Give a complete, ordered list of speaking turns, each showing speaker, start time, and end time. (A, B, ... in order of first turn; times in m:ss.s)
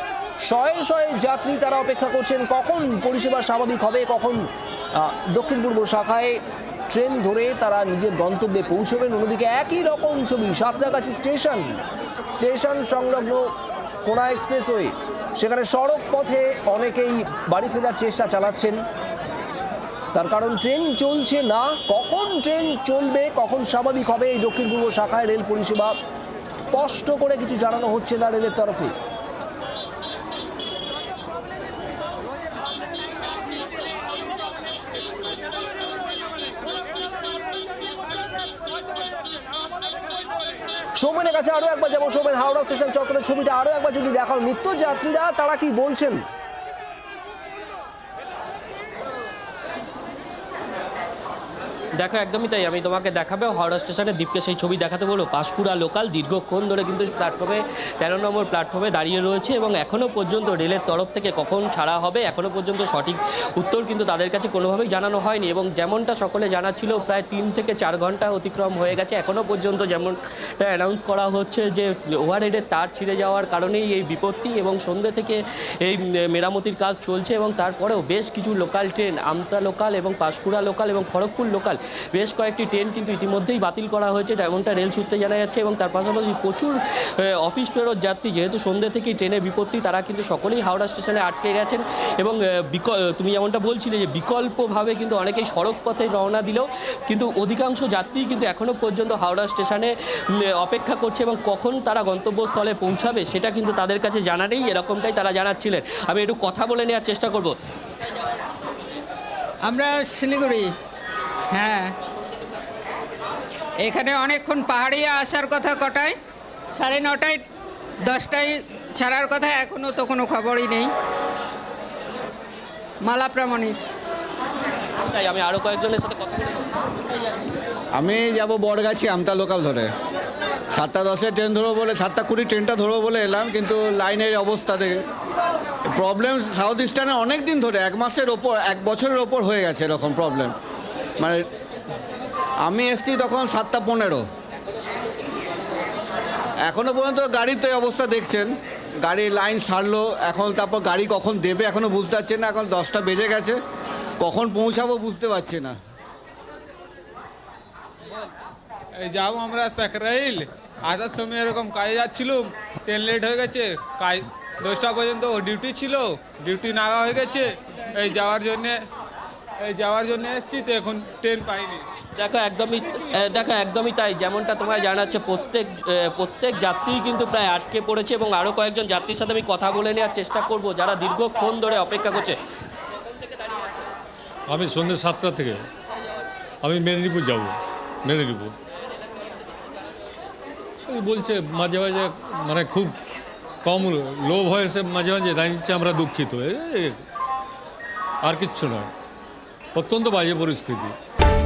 0:00.4-0:11.8 A
0:12.3-0:13.5 A
0:14.0-0:18.8 A
0:20.1-0:25.9 A
0:26.5-0:28.9 A
0:41.0-0:46.2 A
0:52.0-1:39.9 B
1:40.5-1:47.5 B
1:49.6-1:50.7 C
1:51.5-1:51.9 C
1:53.8-1:56.2 C
1:56.8-1:57.5 C
1:58.0-2:00.9 C
2:03.0-2:03.8 C
2:05.0-2:07.0 B
2:08.0-2:09.9 D
2:10.7-2:15.0 D
2:15.9-2:20.5 D
2:21.2-2:21.4 D
2:22.6-2:24.2 D
2:26.6-2:33.6 D
2:34.2-2:35.8 D
2:39.0-2:48.8 E
2:49.6-2:51.8 E
2:52.2-3:02.4 B
3:04.5-3:05.7 F
3:06.6-3:08.6 F
3:10.9-3:13.0 F
3:13.6-3:17.0 F
3:18.2-3:18.9 F
3:19.7-3:20.9 F